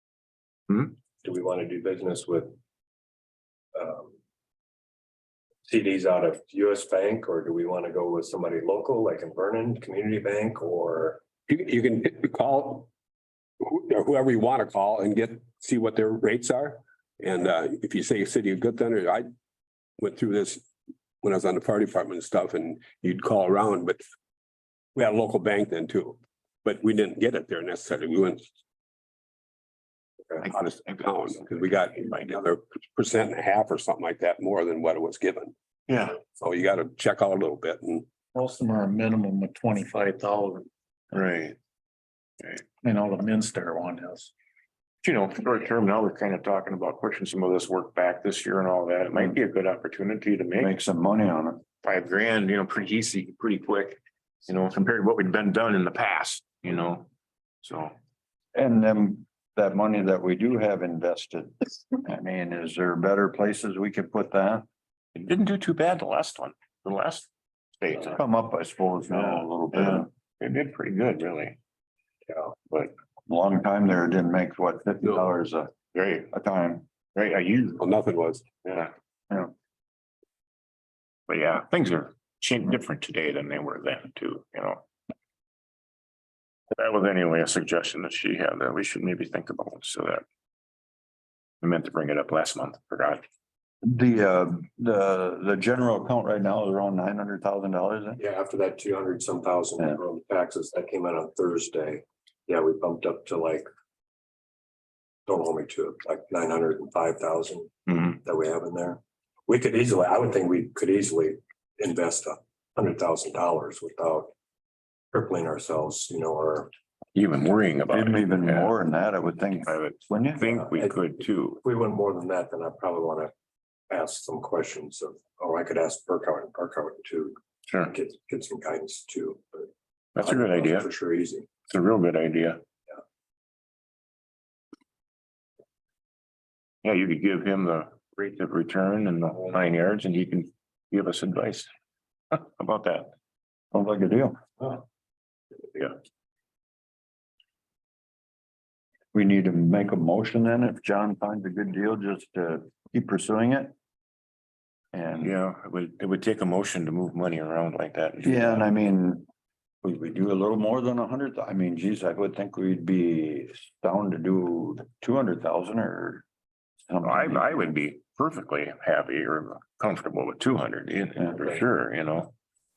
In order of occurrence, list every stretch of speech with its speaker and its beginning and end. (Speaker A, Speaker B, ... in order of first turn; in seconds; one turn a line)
Speaker A: 1.2-2.5
Speaker A: 3.7-4.1
Speaker A: 5.7-11.2
Speaker B: 11.5-12.9
Speaker B: 13.6-19.3
Speaker B: 20.0-20.6
Speaker B: 21.2-24.0
Speaker B: 24.9-28.4
Speaker C: 30.4-32.4
Speaker B: 31.0-35.5
Speaker C: 35.9-36.2
Speaker B: 36.2-38.1
Speaker D: 38.3-40.7
Speaker C: 41.1-41.5
Speaker D: 42.8-44.3
Speaker C: 45.0-50.8
Speaker E: 50.6-51.6
Speaker C: 51.8-57.1
Speaker C: 57.6-57.9
Speaker E: 58.5-64.6
Speaker C: 65.1-67.3
Speaker C: 67.8-68.2
Speaker E: 68.1-70.1
Speaker C: 69.1-71.6
Speaker E: 73.3-75.7
Speaker C: 75.9-76.3
Speaker E: 76.3-76.8
Speaker C: 77.1-77.8
Speaker B: 77.8-78.5
Speaker C: 78.6-78.9
Speaker C: 81.3-84.8
Speaker C: 86.7-90.2
Speaker C: 91.6-93.2
Speaker E: 93.8-98.2
Speaker A: 98.2-103.7
Speaker A: 105.2-114.3
Speaker C: 107.9-108.2
Speaker A: 115.1-116.7
Speaker C: 117.1-118.7
Speaker E: 117.9-120.6
Speaker C: 119.6-121.6
Speaker A: 121.6-123.3
Speaker A: 123.9-131.5
Speaker C: 127.7-127.9
Speaker C: 130.1-130.9
Speaker C: 131.7-132.6
Speaker C: 136.8-141.7
Speaker C: 142.3-143.1
Speaker E: 143.7-144.4
Speaker E: 149.1-153.7
Speaker E: 154.9-155.3
Speaker C: 155.2-158.7
Speaker E: 158.2-159.2
Speaker E: 159.8-166.2
Speaker E: 166.9-167.7
Speaker C: 167.0-172.3